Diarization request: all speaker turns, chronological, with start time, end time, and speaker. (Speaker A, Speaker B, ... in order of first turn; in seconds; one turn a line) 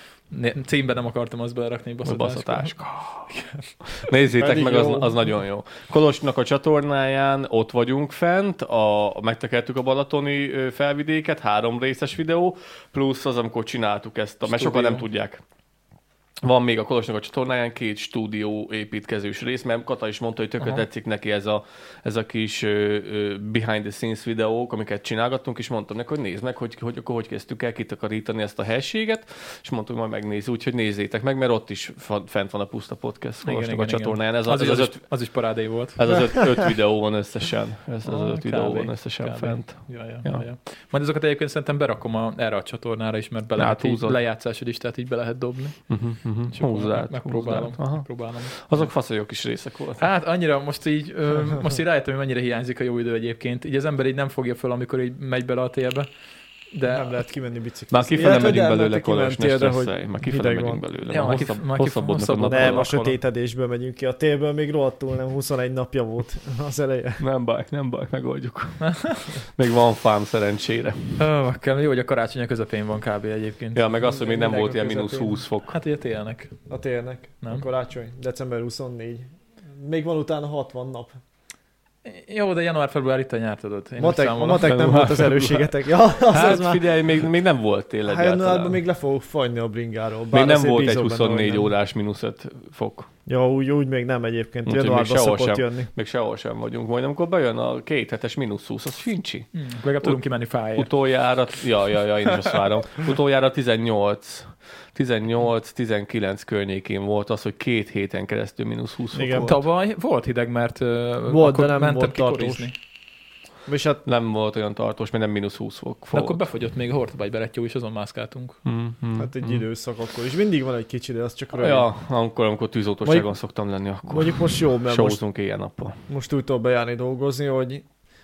Speaker A: 0.3-3.7
Speaker B: 2.0-3.3
Speaker B: 3.9-15.4
Speaker C: 4.4-5.1
Speaker A: 14.4-15.0
Speaker B: 16.4-40.4
Speaker A: 33.4-36.0
Speaker A: 38.0-45.9
Speaker B: 43.6-44.2
Speaker B: 45.9-50.1
Speaker A: 46.5-48.9
Speaker A: 50.0-56.1
Speaker A: 56.7-57.2
Speaker C: 56.9-60.8
Speaker B: 57.9-63.0
Speaker A: 61.1-63.2
Speaker C: 62.5-67.2
Speaker B: 67.2-71.2
Speaker A: 68.8-69.4
Speaker A: 71.2-73.8
Speaker B: 73.7-75.7
Speaker C: 74.0-75.3
Speaker A: 75.6-76.5
Speaker C: 76.7-81.2
Speaker A: 82.0-84.8
Speaker C: 84.0-86.8
Speaker B: 84.6-85.7
Speaker B: 86.3-88.8
Speaker C: 88.0-91.7
Speaker B: 90.3-93.1
Speaker C: 93.3-95.9
Speaker B: 94.7-99.5
Speaker A: 99.5-100.9
Speaker B: 100.8-109.6
Speaker C: 109.1-109.5
Speaker A: 109.4-112.7
Speaker C: 111.3-112.7
Speaker C: 113.7-114.0
Speaker B: 114.0-116.4
Speaker A: 116.1-118.6
Speaker B: 118.6-119.6
Speaker C: 119.2-121.9
Speaker B: 121.6-126.0
Speaker C: 123.0-123.3
Speaker C: 124.1-125.2
Speaker C: 126.1-127.8